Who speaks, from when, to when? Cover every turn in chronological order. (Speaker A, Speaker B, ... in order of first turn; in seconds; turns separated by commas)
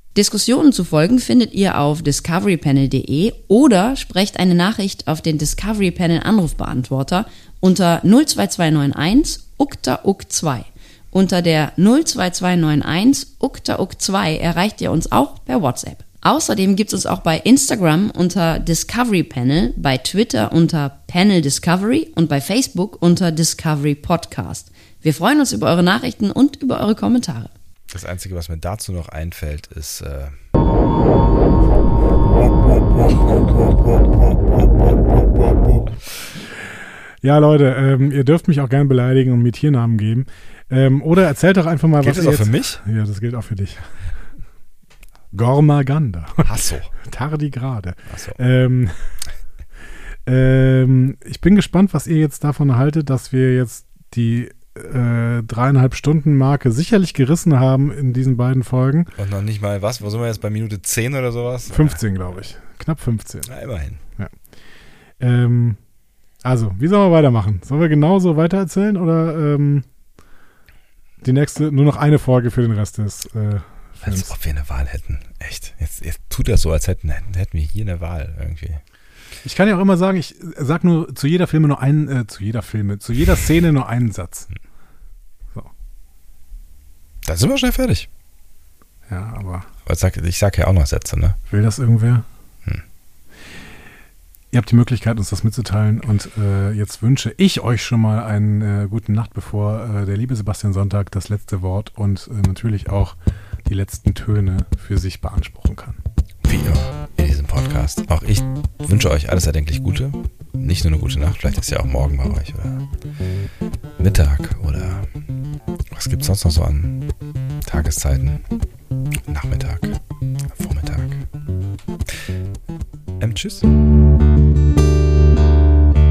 Speaker A: 0.1-27.5, Speaker B: 27.9-30.4, Speaker C: 37.2-43.9, Speaker B: 42.0-42.8, Speaker C: 45.3-46.5, Speaker B: 46.4-46.9, Speaker C: 47.0-48.9, Speaker B: 48.1-48.4, Speaker C: 50.3-59.1, Speaker B: 59.2-62.0, Speaker C: 61.7-63.5, Speaker B: 63.5-64.0, Speaker C: 65.2-65.8, Speaker C: 66.5-69.8, Speaker C: 71.2-74.3, Speaker B: 74.0-78.8, Speaker C: 79.4-84.5, Speaker B: 87.2-88.1, Speaker C: 89.1-89.7, Speaker B: 89.9-91.4, Speaker C: 91.5-92.3, Speaker C: 94.5-103.2, Speaker C: 103.7-106.0, Speaker B: 106.4-112.8, Speaker B: 114.0-115.1, Speaker B: 115.9-117.1, Speaker B: 117.7-118.4, Speaker B: 119.3-120.0, Speaker B: 120.5-121.2, Speaker B: 123.2-123.7